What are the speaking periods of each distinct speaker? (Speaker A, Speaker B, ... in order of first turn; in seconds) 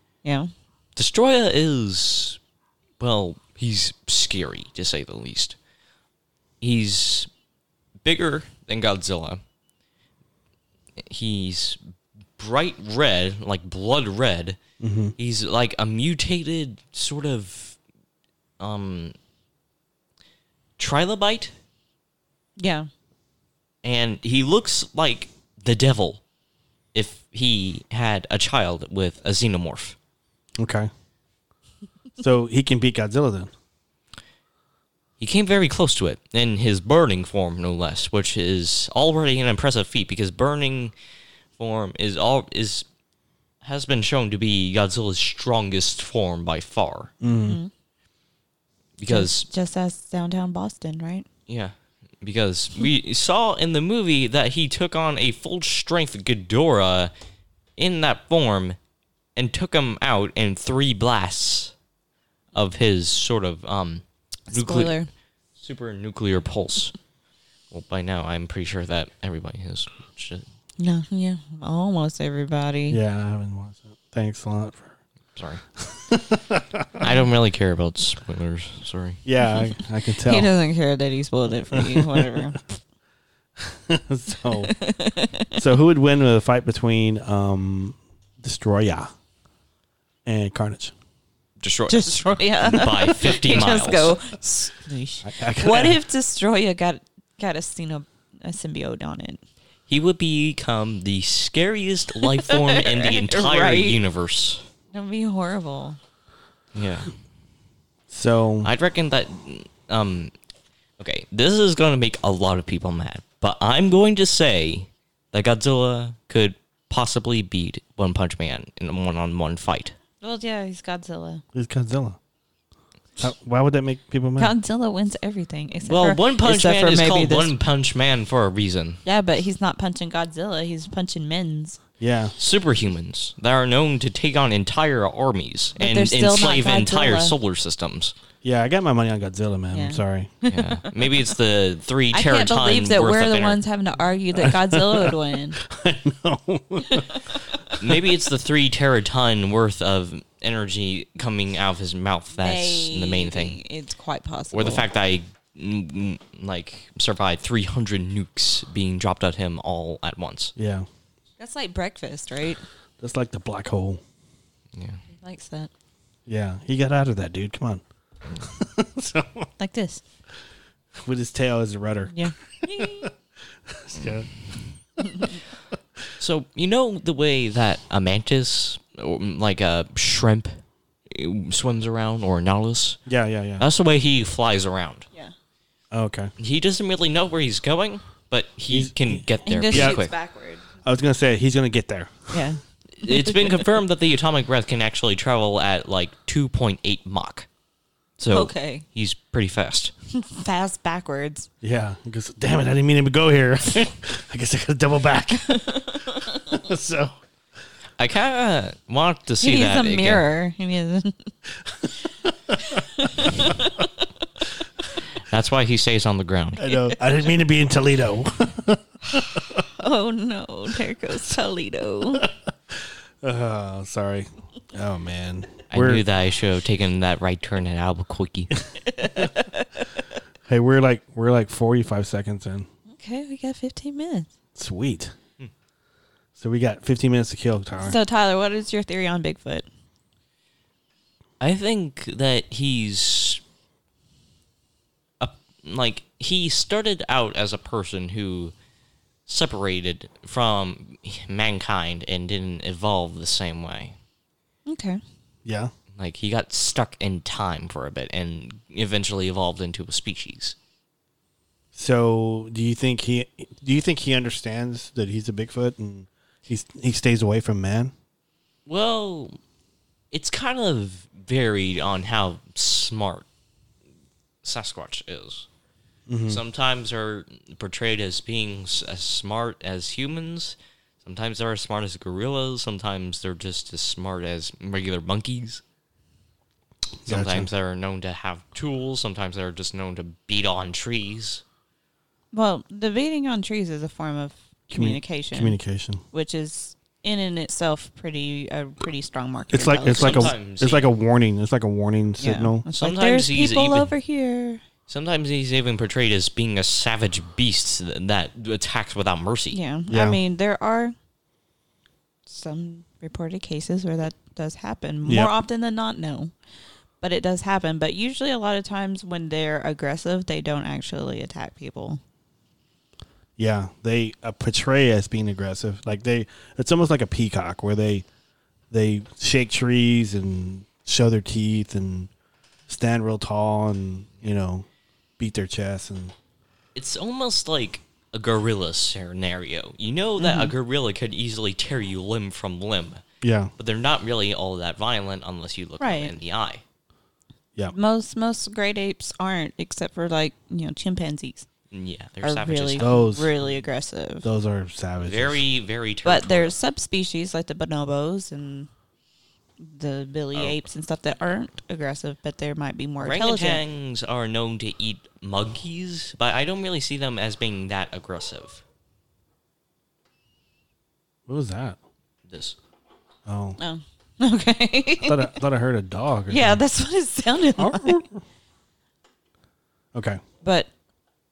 Speaker A: 0.2-0.5, 22.6-22.9, 47.3-47.7, 49.1-51.3, 64.5-65.1, 70.8-73.0, 79.4-82.7, 84.6-85.6, 91.9-99.4, 102.3-104.0, 104.9-106.0, 120.2-121.4, 124.4-127.5, 129.1-131.8, 135.8-137.3, 139.7-141.1, 142.1-145.6, 146.9-147.7, 152.3-154.8, 161.4-162.6, 165.1-165.7, 169.6-170.0, 172.1-173.1, 175.1-175.3, 189.5-190.6, 192.3-193.5, 198.3-198.8, 200.1-201.5, 205.4-206.4, 209.4-211.3, 212.7-214.1, 219.6-222.3, 228.9-229.9, 232.9-234.3, 237.8-239.7, 254.7-255.0, 292.3-295.6, 296.1-300.3, 302.2-304.6, 309.5-310.9, 312.3-316.3, 317.0-322.0, 340.2-340.5, 345.8-346.1, 347.7-351.5, 352.2-354.3, 356.0-358.7, 359.6-363.6, 373.6-375.4, 376.3-378.0, 380.4-380.7
Speaker B: 1.0-2.4, 3.0-5.6, 6.6-7.3, 8.0-9.4, 11.0-11.8, 12.4-14.6, 15.2-17.8, 18.6-19.1, 20.8-21.5, 23.8-26.2, 26.9-30.0, 35.2-40.9, 41.6-42.9, 43.6-47.1, 49.0-49.5, 51.5-57.1, 57.8-58.8, 59.4-61.7, 62.5-65.0, 65.6-67.0, 67.7-70.5, 75.4-75.6, 77.0-79.2, 91.6-94.2, 99.9-104.7, 106.8-107.1, 108.6-110.3, 111.0-120.0, 125.8-129.0, 132.4-138.1, 140.5-143.6, 147.8-153.6, 154.5-160.5, 164.7-165.0, 176.2-183.0, 183.6-185.1, 186.4-190.1, 193.0-197.5, 198.2-199.9, 208.0-210.3, 215.3-216.8, 225.7-228.6, 241.4-243.4, 245.2-248.5, 249.3-254.0, 255.9-260.6, 268.7-269.4, 270.1-273.3, 274.4-275.5, 276.3-285.6, 287.1-291.4, 299.9-300.9, 302.8-303.9, 304.9-309.6, 336.8-343.0, 343.6-346.6, 351.7-353.5, 355.0-356.6, 363.0-368.6, 372.3-372.6
Speaker C: 14.8-15.2, 30.6-30.9, 32.2-33.5, 47.2-47.6, 72.9-75.0, 75.8-77.1, 79.2-80.5, 81.7-82.4, 83.6-84.7, 85.6-89.1, 90.3-90.9, 95.2-96.0, 108.1-108.7, 121.5-122.2, 123.2-124.5, 132.0-132.3, 138.4-140.3, 144.3-147.2, 160.6-160.9, 163.0-164.0, 166.3-167.8, 168.4-169.5, 170.9-173.1, 173.7-174.3, 183.1-183.7, 185.9-186.3, 188.7-190.0, 190.8-192.5, 201.6-207.2, 211.6-211.9, 212.5-212.8, 216.6-219.6, 222.2-226.0, 230.5-232.7, 234.6-235.1, 236.4-238.0, 255.4-255.7, 261.7-267.9, 276.1-276.4, 287.1-287.5, 294.7-296.0, 299.5-302.6, 309.9-310.2, 315.1-315.3, 323.4-328.1, 328.7-332.1, 332.7-334.7, 335.2-336.1, 343.2-343.5, 352.8-353.3, 354.2-355.4, 371.3-371.8, 373.3-373.6, 375.0-376.6, 377.6-378.2, 379.9-380.2